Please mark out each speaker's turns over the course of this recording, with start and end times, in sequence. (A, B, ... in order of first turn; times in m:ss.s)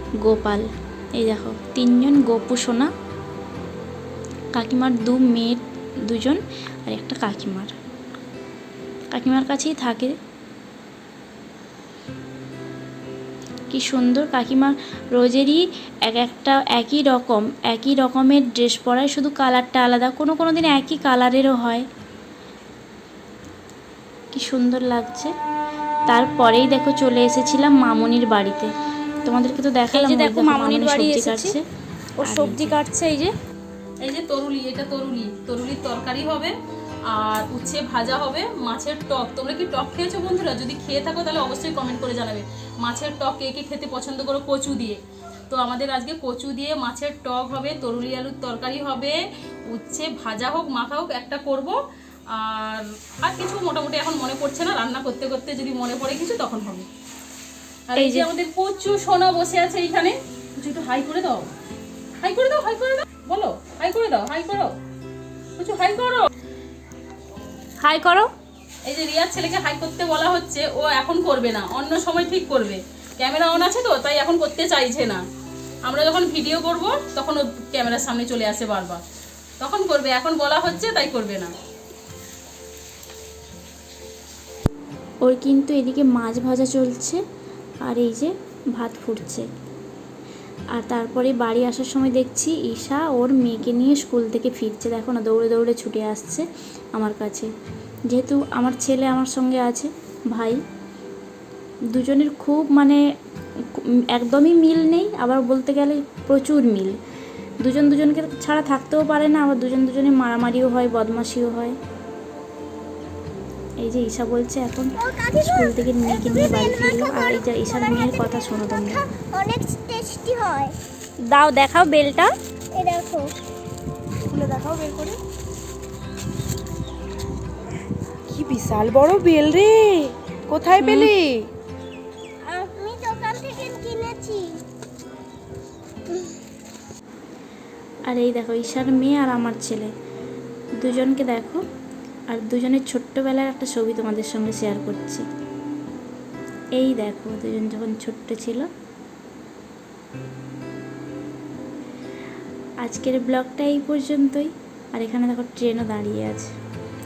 0:00.2-0:02.9 A
0:04.6-0:07.7 A
0:09.1-0:10.2 A
0:13.7-0:21.9 A
0:24.3-0:25.3 A
0:26.1-0:28.7 A
0:29.2-0:31.6 A
0:30.1-0:31.5 B
0:32.2-0:33.2 B
0:32.2-0:32.8 A
0:34.0-0:36.5 C
0:37.1-0:49.2 C
0:49.7-0:51.8 C
0:52.3-0:56.9 C
0:57.9-1:01.5 C
1:02.2-1:04.7 C
1:05.6-1:06.3 C
1:08.9-1:15.2 C
1:15.8-1:19.0 C
1:19.6-1:21.5 C
1:25.2-1:27.2 A
1:27.9-1:29.4 A
1:30.8-1:37.5 A
1:38.1-1:40.6 A
1:41.9-1:43.0 A
1:43.7-1:47.0 A
1:47.6-1:51.8 A
1:53.8-1:59.1 A
1:55.0-2:00.8 D
2:02.7-2:03.3 D
2:04.3-2:05.2 E
2:08.3-2:11.5 E
2:12.4-2:14.6 D
2:18.1-2:19.9 A
2:20.8-2:21.6 A
2:22.3-2:25.2 A
2:26.8-2:28.7 A
2:32.8-2:36.5 A